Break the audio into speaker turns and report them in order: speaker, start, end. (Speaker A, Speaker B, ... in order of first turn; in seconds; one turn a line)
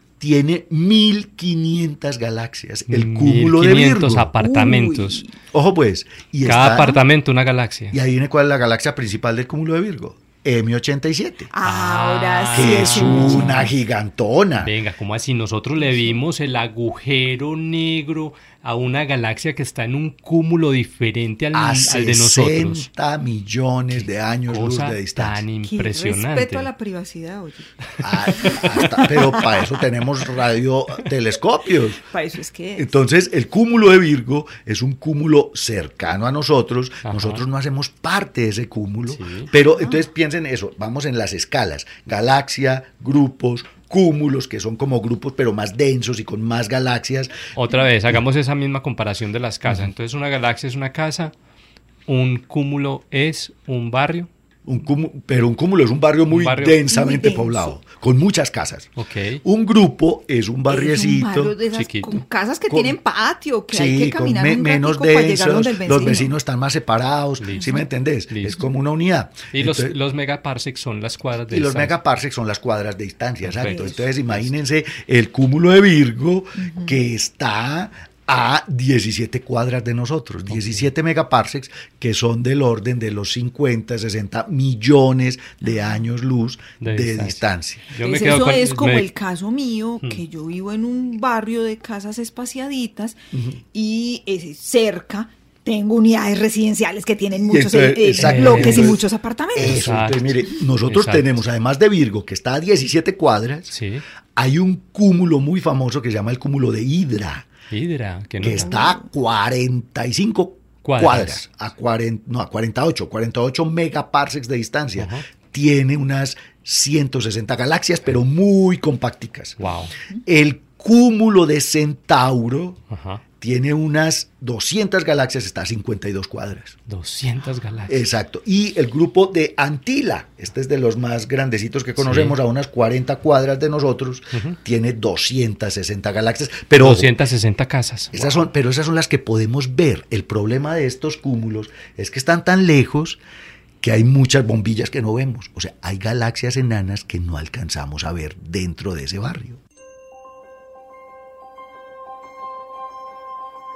Speaker A: 0.2-4.3
Speaker B: 2.9-5.2
Speaker C: 4.4-5.3
Speaker A: 5.5-7.0
Speaker B: 6.4-8.0
Speaker A: 7.9-11.5
Speaker C: 11.5-13.7
Speaker B: 11.6-13.7
Speaker A: 12.5-14.7
Speaker B: 14.6-22.8
Speaker C: 15.8-16.2
Speaker A: 21.5-25.4
Speaker B: 23.9-26.7
Speaker C: 25.6-27.7
Speaker A: 28.0-32.0
Speaker B: 28.3-29.1
Speaker C: 28.4-29.6
Speaker C: 32.1-33.0
Speaker A: 32.8-47.4
Speaker B: 37.0-37.4
Speaker B: 39.1-39.5
Speaker C: 39.5-40.0
Speaker B: 47.5-51.3
Speaker B: 52.1-54.3
Speaker A: 54.6-58.9
Speaker B: 56.3-56.9
Speaker C: 56.9-57.8
Speaker B: 59.0-59.4
Speaker A: 59.4-61.5
Speaker C: 60.7-66.3
Speaker B: 61.7-62.2
Speaker A: 62.7-63.0
Speaker A: 63.7-69.9
Speaker B: 65.9-66.3
Speaker B: 67.4-68.6
Speaker C: 67.6-67.8
Speaker B: 69.5-72.0
Speaker A: 71.5-87.9
Speaker B: 73.4-74.5
Speaker C: 73.6-74.0
Speaker C: 76.6-76.9
Speaker B: 80.5-80.9
Speaker B: 86.8-87.4
Speaker B: 87.9-89.1
Speaker C: 88.0-93.2
Speaker A: 93.3-93.6
Speaker C: 93.7-99.8
Speaker A: 97.5-103.7
Speaker B: 98.2-99.0
Speaker B: 99.6-100.3
Speaker B: 100.8-101.3
Speaker B: 103.7-104.0
Speaker A: 104.3-107.5
Speaker B: 107.7-108.8
Speaker A: 108.4-119.6
Speaker C: 108.5-109.0
Speaker B: 110.8-111.5
Speaker B: 115.0-115.2
Speaker B: 119.6-119.9
Speaker A: 120.2-122.8
Speaker B: 122.9-123.2
Speaker A: 123.4-126.8
Speaker B: 126.9-128.0
Speaker A: 127.9-137.1
Speaker B: 132.0-132.4
Speaker B: 136.8-138.4
Speaker A: 138.1-143.2
Speaker A: 143.8-149.6